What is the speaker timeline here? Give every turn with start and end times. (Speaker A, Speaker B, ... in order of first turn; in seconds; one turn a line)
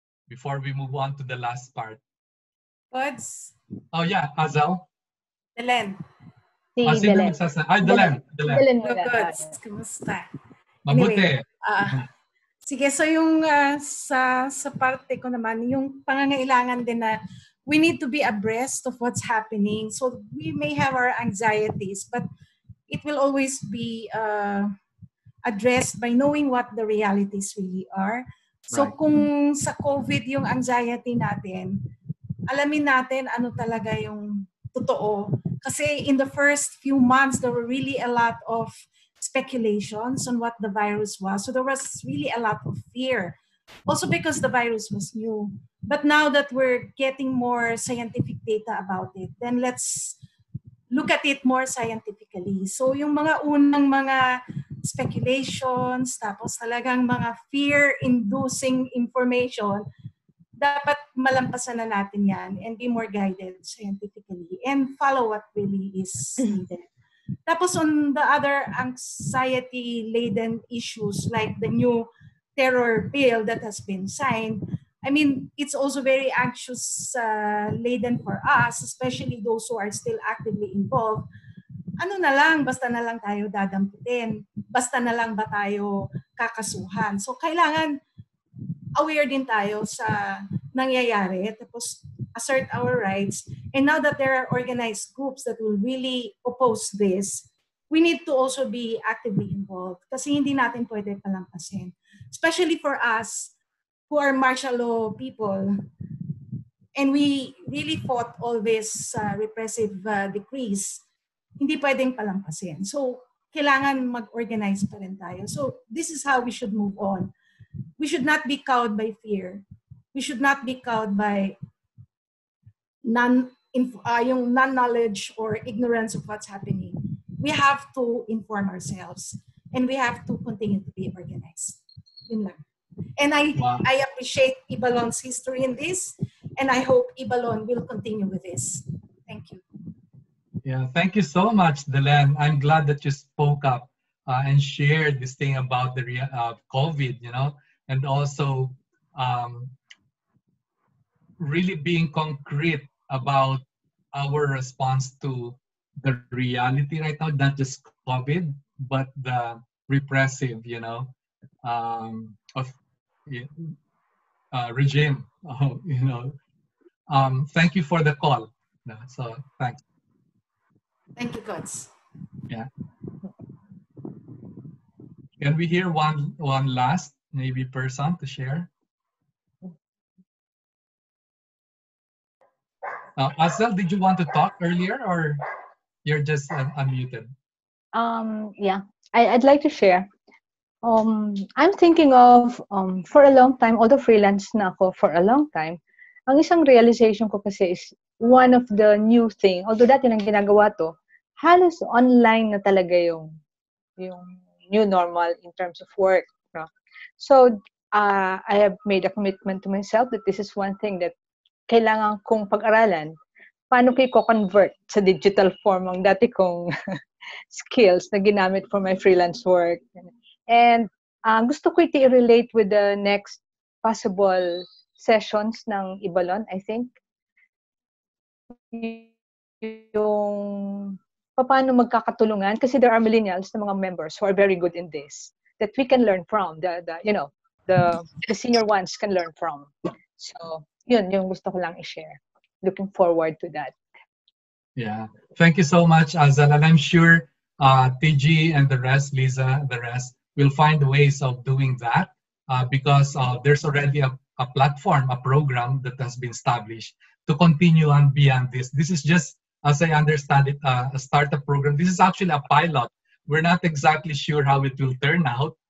Speaker A: 0.3-2.0
Speaker B: 2.9-3.5
Speaker A: 3.9-4.8
Speaker B: 5.6-6.0
Speaker A: 6.8-8.7
Speaker C: 6.9-7.3
Speaker B: 7.8-10.3
Speaker C: 8.7-9.2
Speaker A: 10.9-11.4
Speaker B: 10.9-12.0
Speaker B: 12.7-22.3
Speaker B: 22.9-24.7
Speaker B: 25.4-31.9
Speaker B: 32.5-50.2
Speaker B: 50.9-54.2
Speaker B: 54.8-59.8
Speaker B: 60.6-66.7
Speaker B: 67.5-81.3
Speaker B: 82.0-87.9
Speaker B: 89.0-103.5
Speaker B: 104.1-105.8
Speaker B: 107.0-111.0
Speaker B: 111.6-117.3
Speaker B: 118.0-121.6
Speaker B: 123.0-132.6
Speaker B: 133.2-139.6
Speaker A: 133.6-133.8
Speaker A: 140.6-149.7
Speaker A: 151.4-162.7
Speaker A: 163.3-163.7
Speaker A: 164.5-166.4
Speaker A: 167.1-169.8
Speaker B: 171.2-171.9
Speaker A: 175.4-178.7
Speaker A: 183.2-185.4
Speaker A: 186.0-187.3
Speaker C: 187.9-190.1
Speaker C: 190.8-203.4
Speaker C: 204.0-206.7
Speaker C: 207.2-211.1
Speaker C: 211.7-213.2
Speaker C: 213.7-216.7
Speaker C: 217.5-226.9
Speaker C: 228.7-230.5
Speaker C: 231.4-243.7
Speaker A: 244.8-265.5